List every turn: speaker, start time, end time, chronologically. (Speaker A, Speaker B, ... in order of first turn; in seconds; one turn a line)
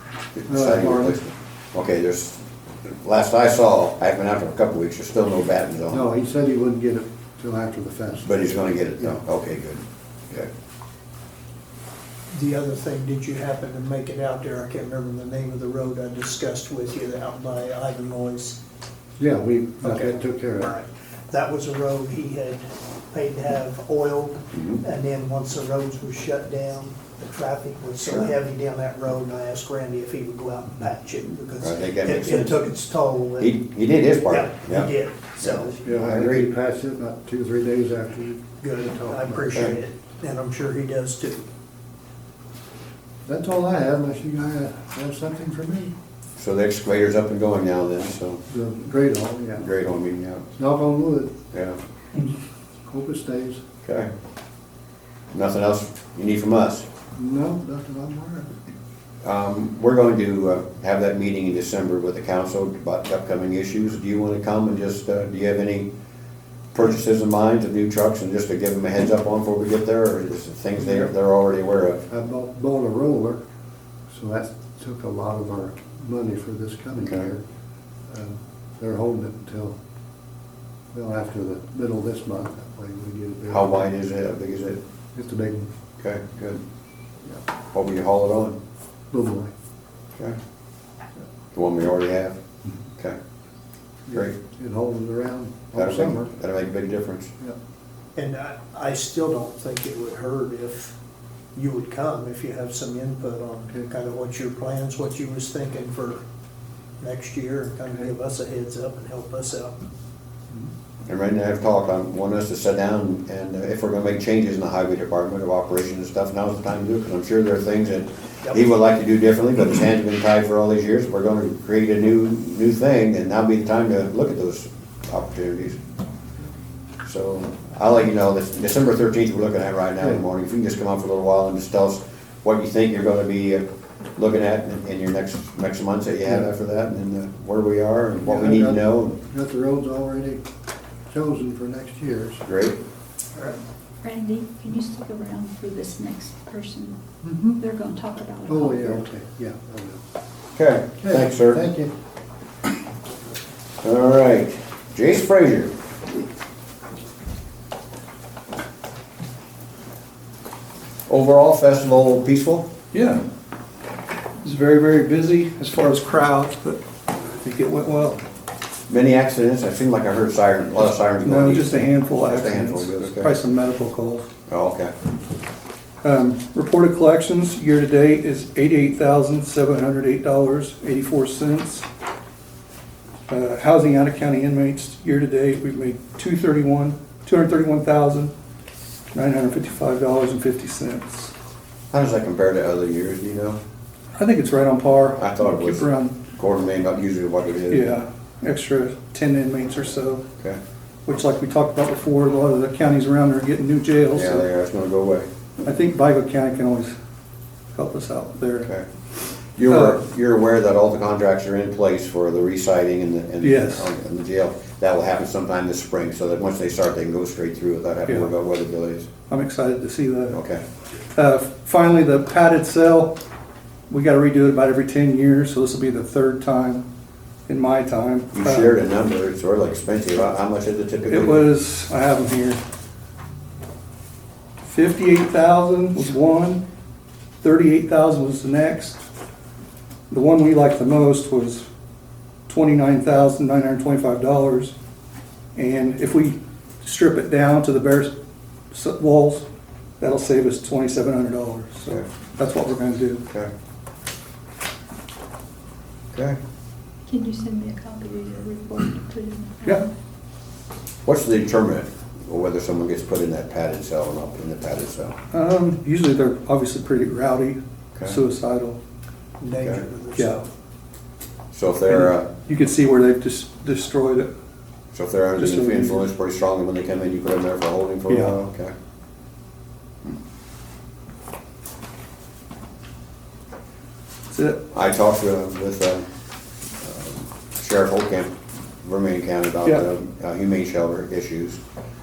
Speaker A: 0.3-6.1
Speaker B: 0.5-1.2
Speaker B: 5.9-8.4
Speaker A: 8.2-10.5
Speaker C: 12.3-18.6
Speaker B: 19.2-20.7
Speaker C: 19.8-33.5
Speaker A: 24.5-24.8
Speaker A: 31.6-32.6
Speaker A: 33.4-36.5
Speaker C: 34.2-35.8
Speaker B: 35.8-39.5
Speaker C: 38.6-41.5
Speaker B: 43.2-45.9
Speaker A: 46.4-48.4
Speaker B: 48.5-49.7
Speaker A: 49.6-50.5
Speaker B: 50.5-51.4
Speaker A: 51.5-51.8
Speaker B: 52.9-53.6
Speaker A: 53.8-54.1
Speaker A: 55.3-56.9
Speaker B: 57.1-58.5
Speaker A: 59.2-65.9
Speaker A: 66.7-72.0
Speaker B: 72.1-73.4
Speaker B: 74.1-77.4
Speaker B: 78.1-79.8
Speaker B: 80.9-83.9
Speaker A: 83.5-84.8
Speaker B: 85.1-85.7
Speaker A: 86.0-86.6
Speaker A: 87.7-88.6
Speaker B: 89.1-89.5
Speaker A: 91.5-92.4
Speaker B: 94.1-96.3
Speaker A: 95.7-97.3
Speaker C: 98.2-100.9
Speaker C: 101.5-106.2
Speaker C: 107.0-109.8
Speaker A: 111.0-125.8
Speaker A: 127.0-133.6
Speaker A: 134.2-139.2
Speaker B: 138.2-140.4
Speaker B: 141.1-142.4
Speaker A: 142.4-142.8
Speaker D: 144.0-147.0
Speaker B: 147.2-147.6
Speaker D: 147.6-149.0
Speaker B: 148.4-150.0
Speaker A: 150.5-151.6
Speaker B: 151.0-151.9
Speaker A: 153.8-155.7
Speaker A: 161.1-162.7
Speaker E: 162.9-163.2
Speaker E: 164.4-168.2
Speaker A: 168.9-173.3
Speaker E: 171.2-174.3
Speaker A: 174.5-174.9
Speaker E: 176.0-181.8
Speaker E: 183.3-188.3
Speaker E: 189.1-191.3
Speaker A: 191.9-193.6
Speaker E: 194.2-196.2
Speaker A: 195.2-198.0
Speaker E: 197.7-200.2
Speaker E: 201.1-204.4
Speaker A: 204.1-205.3
Speaker E: 205.6-206.9
Speaker E: 207.7-208.7
Speaker A: 209.6-219.1
Speaker E: 209.6-210.0
Speaker E: 213.4-213.9
Speaker E: 219.3-220.4
Speaker A: 220.3-220.6
Speaker E: 221.1-223.2
Speaker E: 223.9-226.8
Speaker E: 227.5-228.7
Speaker A: 228.3-231.5
Speaker E: 231.1-232.6
Speaker E: 234.6-236.6
Speaker E: 237.4-239.0
Speaker E: 240.1-241.7
Speaker E: 242.5-244.7
Speaker E: 245.5-248.1
Speaker E: 248.7-249.4
Speaker E: 250.0-253.2
Speaker A: 256.1-256.4
Speaker D: 257.1-259.9
Speaker A: 261.0-265.1
Speaker E: 265.3-268.8
Speaker C: 269.4-270.4
Speaker E: 270.1-270.4
Speaker A: 271.5-272.3
Speaker E: 271.9-274.3
Speaker A: 274.9-278.7
Speaker E: 275.4-276.0
Speaker E: 278.1-278.4
Speaker E: 284.3-284.6
Speaker A: 284.7-286.1
Speaker A: 286.8-291.6